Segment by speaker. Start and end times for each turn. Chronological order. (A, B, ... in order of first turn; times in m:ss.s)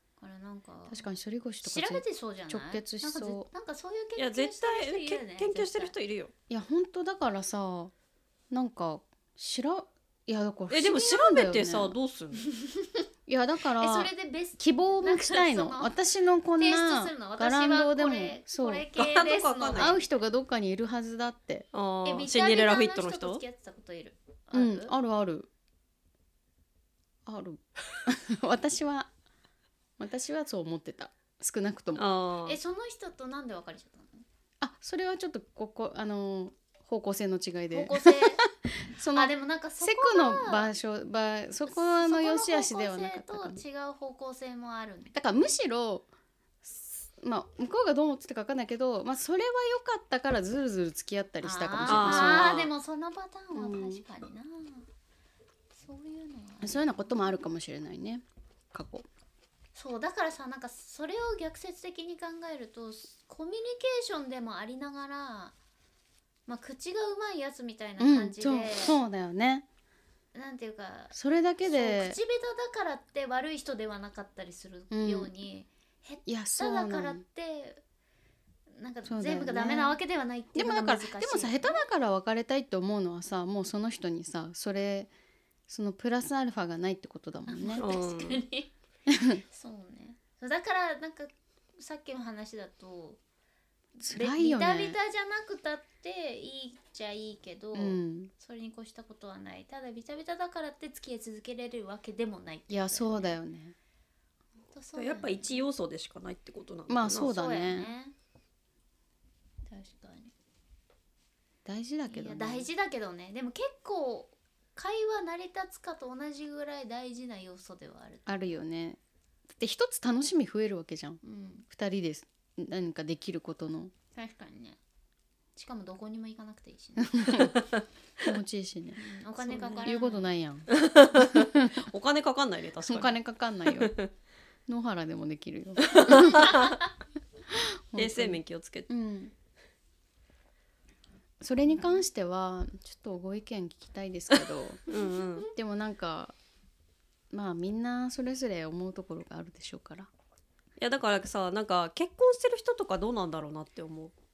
0:00.2-0:01.0 A
0:00.9-0:03.5 B
0:01.6-0:05.9 A
0:04.2-0:06.3 C
0:06.5-0:07.9 B
0:08.5-0:12.0 B
0:10.7-0:12.4 C
0:12.4-0:13.0 A
0:13.3-0:18.9 B
0:13.8-0:15.9 A
0:16.6-0:20.0 A
0:19.0-0:20.0 C
0:19.7-0:21.7 B
0:21.7-0:23.4 C
0:22.0-0:24.9 A
0:24.5-0:25.5 B
0:27.2-0:29.1 B
0:30.0-0:32.0 B
0:31.9-0:32.6 C
0:32.4-0:34.2 A
0:34.6-0:43.6 B
0:37.7-0:38.4 A
0:39.1-0:40.7 A
0:41.7-0:45.1 A
0:45.1-0:46.0 B
0:46.6-0:52.6 B
0:51.4-0:54.8 A
0:51.8-0:52.7 C
0:53.5-0:54.0 B
0:55.7-0:57.2 A
0:56.6-0:59.1 B
0:59.7-1:05.5 A
1:06.5-1:09.0 A
1:08.0-1:09.6 B
1:10.3-1:17.8 A
1:11.1-1:12.2 B
1:14.9-1:15.3 B
1:16.2-1:17.2 B
1:18.7-1:21.8 A
1:19.0-1:20.0 B
1:20.5-1:25.1 B
1:25.7-1:27.8 B
1:27.5-1:28.7 A
1:27.8-1:28.4 C
1:29.1-1:29.4 B
1:29.5-1:33.2 A
1:34.0-1:43.4 A
1:34.0-1:35.0 B
1:37.7-1:38.3 B
1:42.7-1:43.7 B
1:44.7-1:45.6 A
1:45.0-1:47.3 C
1:46.9-1:47.9 B
1:47.1-1:48.1 A
1:49.6-1:50.3 A
1:51.6-1:52.7 B
1:52.1-1:58.5 A
1:58.2-1:59.0 B
1:59.6-2:03.9 B
2:01.2-2:01.6 A
2:04.1-2:04.8 A
2:05.6-2:07.5 A
2:07.1-2:07.5 B
2:08.2-2:11.8 B
2:09.0-2:10.3 A
2:10.7-2:14.1 C
2:12.8-2:13.9 B
2:14.7-2:16.5 B
2:15.8-2:16.8 C
2:16.2-2:16.5 A
2:17.5-2:18.4 B
2:18.0-2:18.9 C
2:18.9-2:19.3 B
2:21.4-2:24.8 B
2:24.9-2:25.5 C
2:25.5-2:26.3 B
2:27.3-2:30.1 B
2:30.8-2:34.1 C